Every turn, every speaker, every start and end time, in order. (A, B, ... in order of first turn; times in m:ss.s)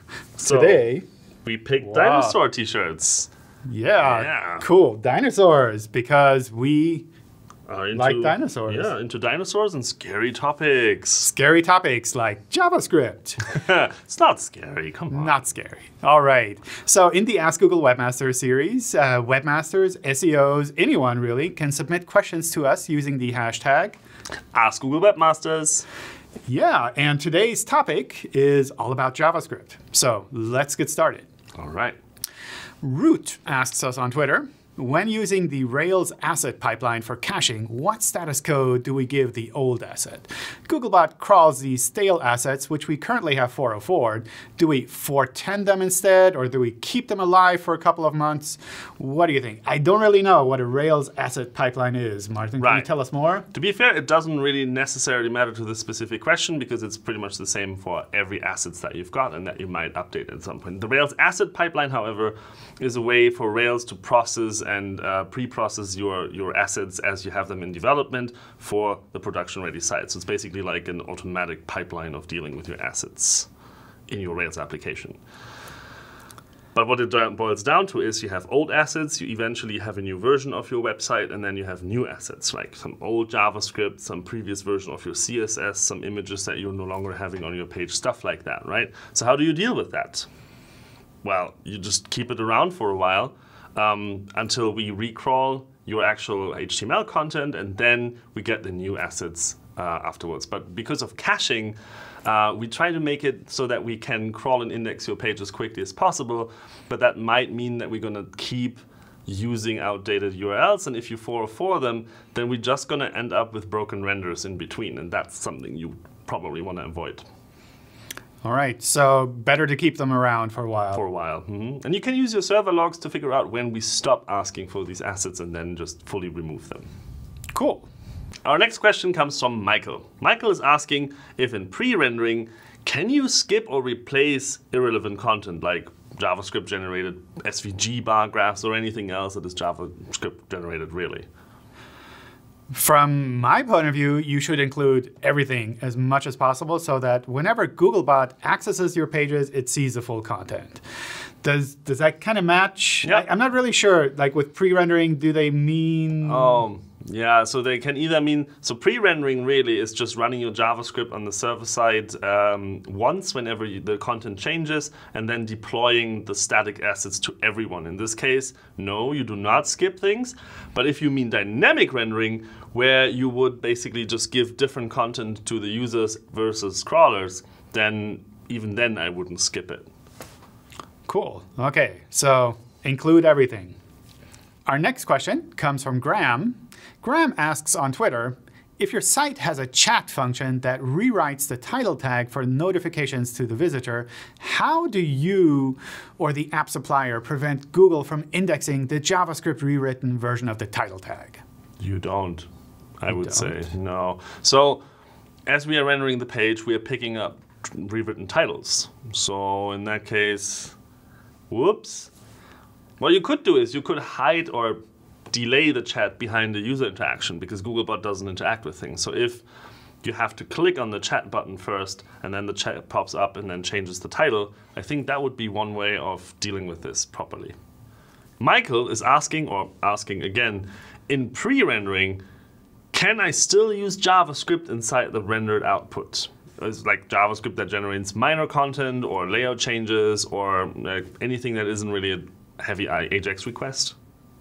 0:00.4-0:01.0 A
0:00.4-0:00.8 B
0:01.4-0:03.3 B
0:01.8-0:02.4 A
0:03.6-0:07.0 A
0:04.0-0:04.6 B
0:07.7-0:11.3 B
0:07.9-0:08.9 A
0:11.2-0:13.5 A
0:13.5-0:15.4 B
0:15.1-0:24.0 A
0:24.5-0:25.8 B
0:26.5-0:31.3 A
0:31.6-0:32.0 B
0:32.8-0:53.5 A
0:52.6-0:52.8 B
0:53.5-1:13.5 B
1:14.1-1:15.2 B
1:16.7-1:30.3 B
1:31.2-1:57.3 B
1:58.4-2:01.0 A
2:00.9-2:06.9 B
2:07.5-2:07.9 A
2:08.4-2:21.2 B
2:22.7-2:30.8 A
2:31.4-2:36.6 A
2:36.2-2:59.9 B
3:01.1-3:03.8 A
3:04.7-3:21.4 A
3:21.8-3:22.5 B
3:23.0-3:24.8 B
3:23.1-3:23.5 A
3:25.5-3:30.8 B
3:31.5-3:32.1 B
3:33.0-3:34.8 B
3:35.3-3:39.4 B
3:40.0-3:47.6 B
3:48.4-3:52.2 B
3:52.9-4:03.9 B